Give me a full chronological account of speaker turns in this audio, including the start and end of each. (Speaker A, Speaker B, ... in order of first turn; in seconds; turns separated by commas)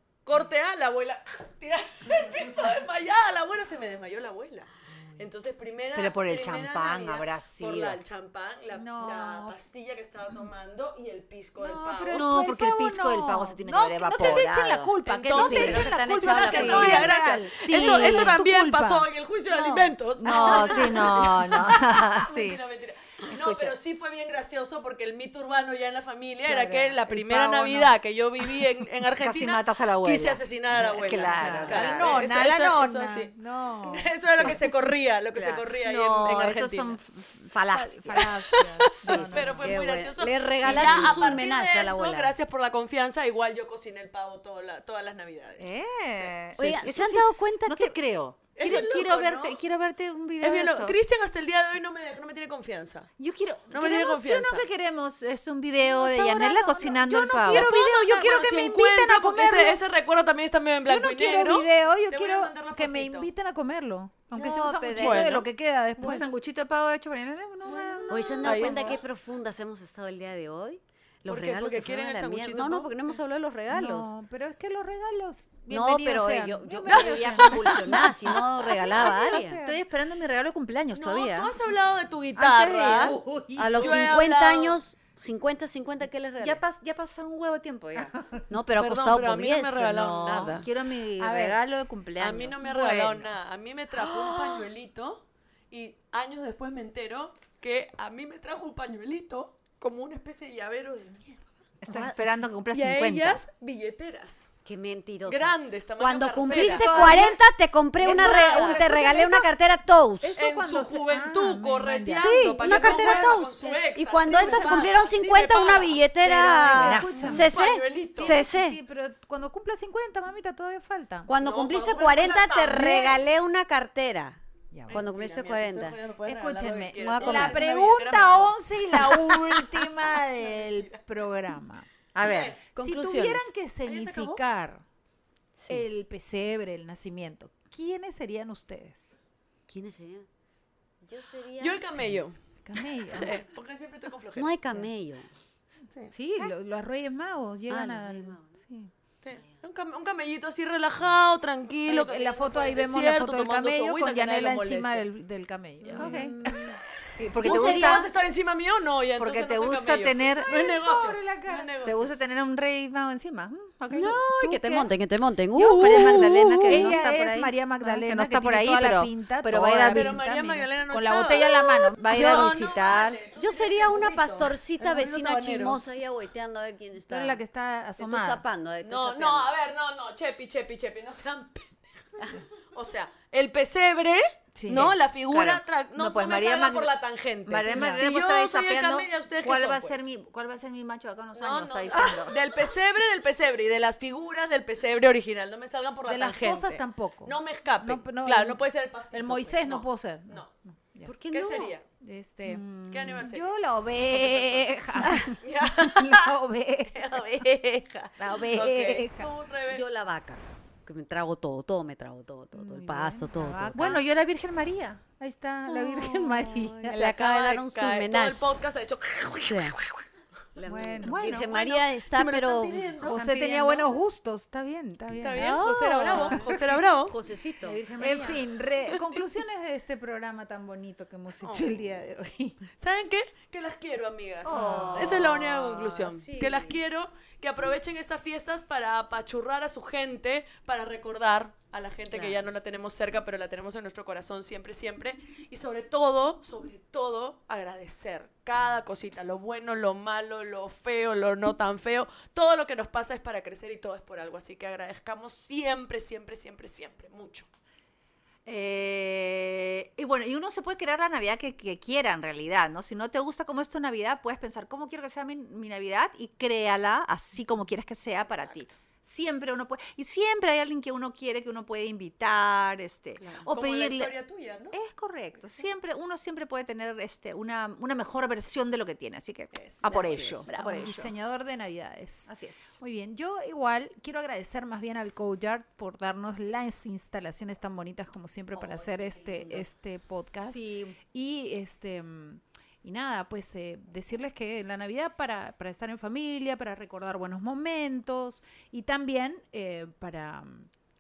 Speaker A: 0.2-12.3, Speaker B: 4.9-5.3, Speaker C: 5.9-8.0, Speaker B: 8.7-9.6, Speaker B: 11.6-20.8, Speaker C: 12.1-18.4, Speaker A: 15.1-33.3, Speaker D: 15.3-17.2, Speaker C: 20.2-22.6, Speaker D: 20.5-20.9, Speaker C: 23.3-23.8, Speaker C: 26.5-27.9, Speaker C: 29.2-32.3, Speaker B: 31.1-34.6, Speaker D: 31.3-31.9, Speaker A: 33.8-37.0, Speaker C: 35.3-38.4, Speaker B: 37.7-39.7, Speaker A: 38.2-46.9, Speaker C: 39.0-39.5, Speaker D: 39.3-42.3, Speaker C: 40.6-41.4, Speaker C: 45.6-51.0, Speaker D: 46.6-48.0, Speaker A: 48.5-49.6, Speaker A: 50.4-53.1, Speaker C: 53.2-57.7, Speaker A: 53.7-54.7, Speaker B: 55.8-59.8, Speaker A: 57.4-63.3, Speaker B: 60.9-66.4, Speaker D: 64.3-65.4, Speaker A: 64.9-65.4, Speaker C: 66.0-69.0, Speaker B: 67.7-68.8, Speaker D: 68.1-74.1, Speaker A: 68.4-69.0, Speaker A: 71.3-72.9, Speaker B: 73.7-79.8, Speaker D: 75.7-79.6, Speaker A: 76.9-78.1, Speaker C: 79.0-81.5, Speaker A: 80.9-83.2, Speaker C: 82.4-83.2, Speaker B: 82.8-84.2, Speaker D: 83.6-86.6, Speaker A: 83.7-84.8, Speaker C: 86.4-88.2, Speaker D: 88.5-90.5, Speaker A: 88.8-90.7, Speaker C: 90.0-93.0, Speaker B: 91.2-91.6, Speaker A: 92.2-101.5, Speaker B: 92.6-93.3, Speaker C: 101.8-103.5, Speaker D: 101.9-102.2, Speaker A: 102.7-104.5, Speaker D: 104.7-110.3, Speaker A: 105.3-107.2, Speaker B: 106.5-107.4, Speaker B: 108.0-109.5, Speaker A: 108.0-108.9, Speaker B: 110.2-114.9, Speaker A: 110.4-118.4, Speaker D: 112.2-118.8, Speaker B: 116.6-121.3, Speaker C: 116.7-117.5, Speaker D: 121.3-126.0, Speaker A: 121.4-123.2, Speaker B: 124.7-125.0, Speaker A: 124.9-131.0, Speaker B: 126.3-131.9, Speaker D: 127.0-127.7, Speaker C: 132.2-132.6, Speaker A: 132.2-132.6, Speaker D: 132.8-133.5, Speaker B: 132.8-134.8, Speaker A: 133.8-134.4, Speaker B: 135.7-139.2, Speaker D: 139.7-140.3, Speaker D: 141.0-141.9, Speaker A: 141.6-142.4, Speaker B: 141.9-143.4, Speaker A: 143.1-144.6, Speaker D: 144.4-145.3, Speaker B: 146.1-148.9, Speaker D: 147.7-148.5, Speaker A: 149.2-155.1, Speaker B: 151.9-156.8, Speaker A: 155.8-156.3, Speaker C: 156.0-156.3, Speaker D: 156.0-156.8, Speaker C: 157.2-158.1, Speaker D: 157.4-158.1, Speaker A: 157.4-162.1, Speaker C: 159.2-160.5, Speaker B: 160.4-161.7, Speaker C: 161.8-164.2, Speaker B: 163.9-164.9, Speaker D: 163.9-167.0, Speaker B: 165.6-172.1, Speaker C: 165.8-170.2, Speaker A: 169.9-175.8, Speaker C: 172.0-173.2, Speaker D: 172.1-172.7, Speaker D: 173.4-177.4, Speaker B: 177.1-178.4, Speaker D: 178.0-179.6, Speaker A: 178.8-190.1, Speaker B: 184.6-184.9, Speaker C: 184.7-186.9, Speaker C: 187.5-192.4, Speaker B: 187.7-188.0, Speaker A: 191.4-200.5, Speaker D: 191.9-192.5, Speaker B: 196.1-201.1, Speaker D: 201.1-201.8, Speaker A: 201.3-201.8, Speaker B: 202.0-207.2, Speaker A: 202.5-203.5, Speaker A: 204.1-206.4, Speaker A: 206.9-209.8, Speaker B: 208.2-209.3, Speaker D: 209.7-214.0, Speaker B: 212.5-214.0, Speaker C: 213.7-215.0, Speaker B: 215.2-217.0, Speaker D: 215.7-218.5, Speaker A: 216.9-220.0, Speaker D: 219.4-219.8, Speaker D: 220.6-222.9, Speaker B: 220.7-221.5, Speaker A: 221.1-223.3, Speaker B: 223.0-226.9, Speaker C: 223.0-223.9, Speaker A: 225.2-227.2, Speaker D: 225.3-228.2, Speaker C: 227.6-228.4, Speaker B: 227.9-232.7, Speaker A: 231.4-231.7, Speaker A: 232.8-257.5, Speaker C: 234.5-235.1, Speaker D: 234.5-236.8, Speaker B: 234.5-235.2, Speaker D: 242.1-242.4, Speaker C: 258.5-274.1, Speaker A: 273.2-274.8, Speaker C: 274.7-281.1, Speaker A: 279.5-280.9, Speaker D: 279.9-280.5, Speaker B: 280.5-300.7, Speaker C: 282.3-282.8, Speaker C: 288.5-289.6, Speaker C: 290.4-291.0